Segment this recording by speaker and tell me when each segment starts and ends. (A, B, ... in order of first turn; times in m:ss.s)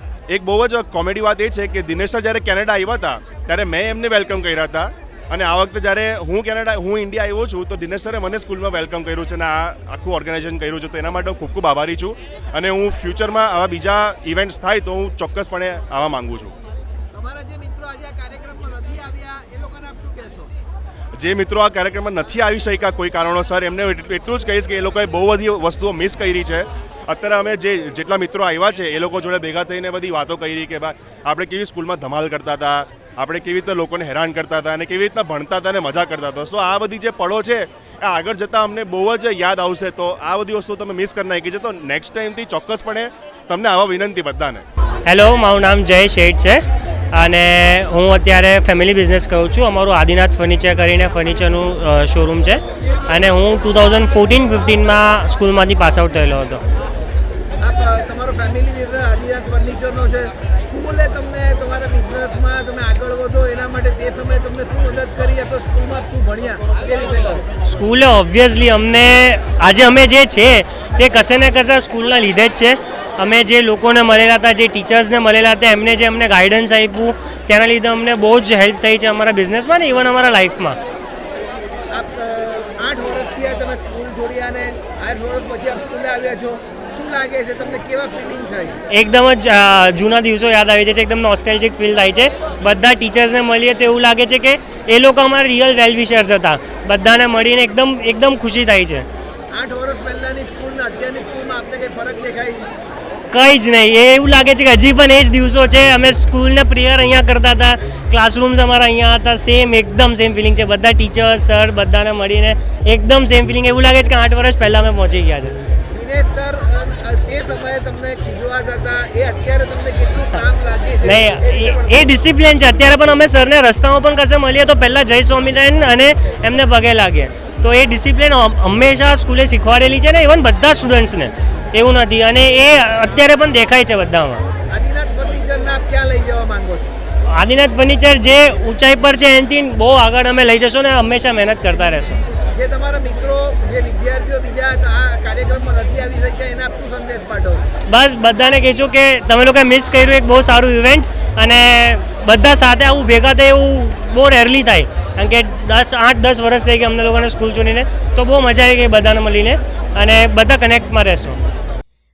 0:00.3-0:16.5 A
0:17.1-0:20.5 B
0:21.2-0:44.6 A
0:45.0-0:56.6 C
0:57.6-1:07.5 B
1:07.6-1:20.8 C
1:21.9-1:28.8 B
1:28.9-1:39.1 C
1:39.5-1:42.7 B
1:43.3-1:55.5 C
1:55.9-2:02.1 B
2:01.0-2:14.4 C
2:14.7-2:16.9 B
2:17.3-2:22.2 C
2:22.5-2:27.7 B
2:27.9-2:41.4 C